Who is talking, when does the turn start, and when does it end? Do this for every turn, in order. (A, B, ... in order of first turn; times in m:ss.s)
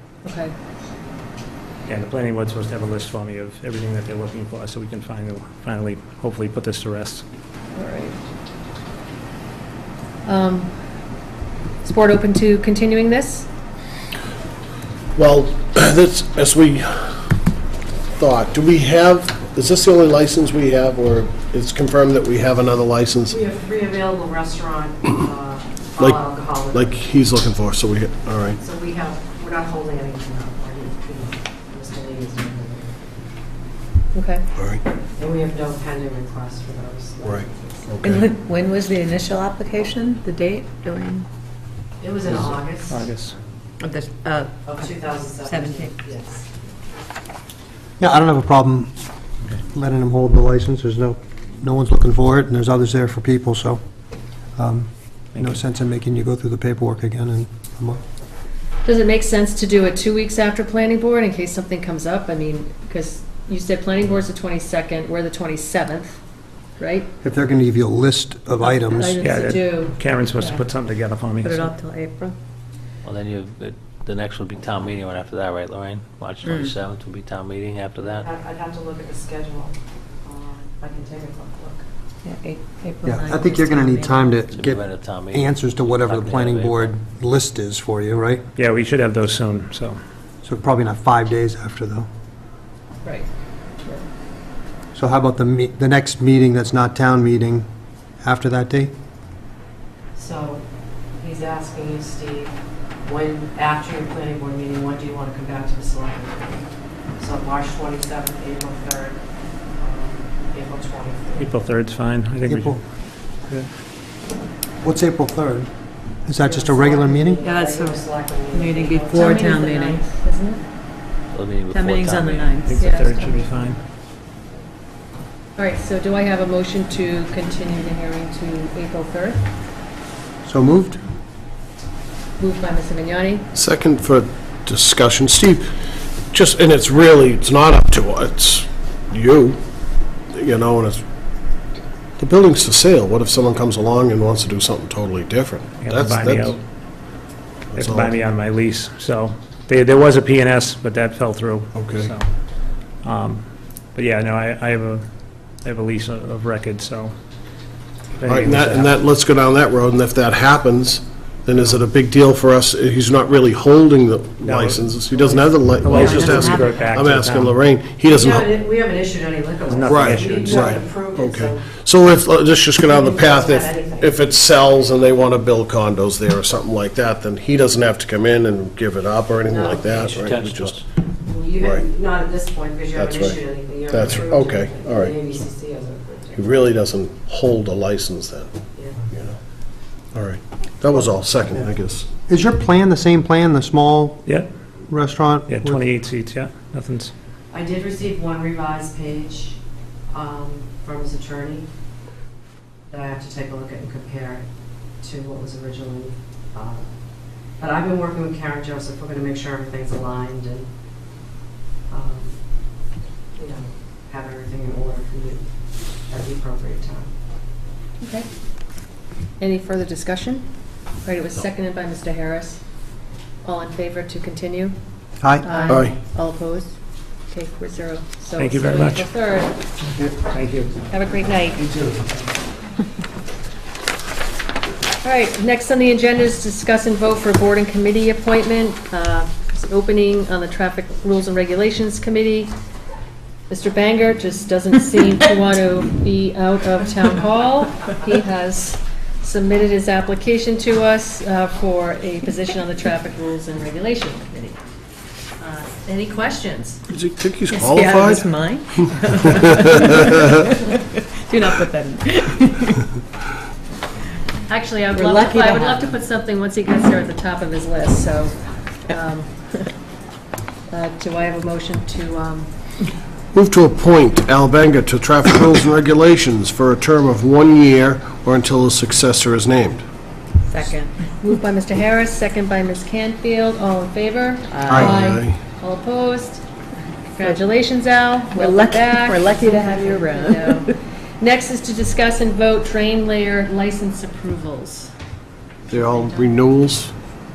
0:00.2-0:00.5 A
0:01.9-0:07.2 B
0:07.7-0:08.2 A
0:10.2-0:10.8 A
0:11.8-0:13.5 A
0:15.1-0:17.3 C
0:18.2-0:23.4 C
0:23.3-0:27.1 D
0:26.0-0:28.6 C
0:28.6-0:32.9 D
0:34.1-0:34.4 A
0:34.6-0:34.8 C
0:35.1-0:38.0 D
0:37.2-0:38.3 C
0:38.0-0:41.2 E
0:42.0-0:43.0 D
0:42.3-0:43.4 B
0:43.8-0:44.7 E
0:44.6-0:46.5 D
0:45.4-0:45.9 E
0:48.0-0:48.9 F
0:49.6-0:53.8 F
0:54.5-0:58.0 F
0:55.3-0:55.6 B
0:58.8-1:06.2 A
1:06.8-1:07.1 A
1:07.2-1:09.2 F
1:08.7-1:10.6 A
1:09.2-1:11.7 B
1:11.4-1:12.3 E
1:13.0-1:18.2 G
1:16.4-1:16.7 E
1:18.2-1:21.8 D
1:22.2-1:24.3 E
1:23.0-1:28.4 F
1:24.5-1:26.9 G
1:28.6-1:30.0 B
1:30.4-1:32.1 F
1:33.0-1:33.3 A
1:34.9-1:37.7 F
1:38.2-1:38.9 F
1:40.1-1:40.6 D
1:41.2-1:46.7 D
1:47.2-1:49.2 D
1:49.8-1:51.5 D
1:51.4-1:52.8 B
1:52.4-1:53.0 F
1:54.8-1:55.7 F
1:56.2-1:57.4 F
1:56.4-1:59.6 D
1:57.4-2:00.1 E
1:59.3-2:00.6 A
2:01.3-2:02.6 G
2:01.7-2:03.7 E
2:02.6-2:03.8 B
2:02.8-2:03.2 A
2:05.6-2:09.5 A
2:10.4-2:11.0 F
2:12.4-2:13.5 A
2:13.5-2:15.6 C
2:16.3-2:19.6 C
2:20.3-2:21.0 C
2:22.2-2:26.6 C
2:25.8-2:26.6 B
2:27.7-2:28.1 C
2:27.7-2:37.1 B
2:31.7-2:32.1 C
2:38.2-2:39.0 B
2:38.2-2:48.6 C
2:44.4-2:47.6 B
2:45.3-2:46.8 D
2:48.0-2:51.7 D
2:49.7-2:50.8 B
2:49.9-3:00.8 C
2:52.8-2:54.2 D
2:59.4-3:00.3 D
3:00.0-3:00.8 G
3:01.2-3:06.7 D
3:01.6-3:01.8 C
3:02.9-3:05.2 C
3:06.3-3:08.5 C
3:08.7-3:09.0 D
3:09.1-3:09.4 C
3:10.1-3:12.1 C
3:11.5-3:14.4 F
3:14.2-3:14.5 B
3:14.9-3:15.8 F
3:15.5-3:17.1 B
3:17.5-3:19.6 D
3:20.1-3:21.7 D
3:22.9-3:24.5 D
3:25.0-3:27.0 D
3:27.6-3:30.7 D
3:31.9-3:32.4 D
3:33.3-3:35.5 D
3:36.1-3:37.1 D
3:38.0-3:38.3 A
3:39.4-3:42.9 A
3:43.4-3:44.8 A
3:45.2-3:45.4 F
3:45.4-3:49.6 A
3:45.5-3:46.2 G
3:45.7-3:46.0 C
3:48.4-3:49.1 B
3:50.3-3:50.9 B
3:50.9-3:51.7 A
3:51.6-3:52.0 F
3:55.0-4:02.5 A
4:03.5-4:14.6 A
4:15.4-4:16.8 A
4:16.9-4:18.3 C
4:17.5-4:22.8 E
4:24.5-4:29.4 A
4:24.9-4:26.0 E
4:28.9-4:29.7 E
4:30.7-4:32.5 A
4:33.3-4:39.8 C
4:40.4-4:41.2 E
4:41.2-4:46.4 A
4:44.5-4:44.9 E
4:44.7-4:45.4 C
4:47.1-4:54.9 A
4:48.3-4:50.7 E
4:55.7-4:56.9 C
4:55.7-4:56.3 A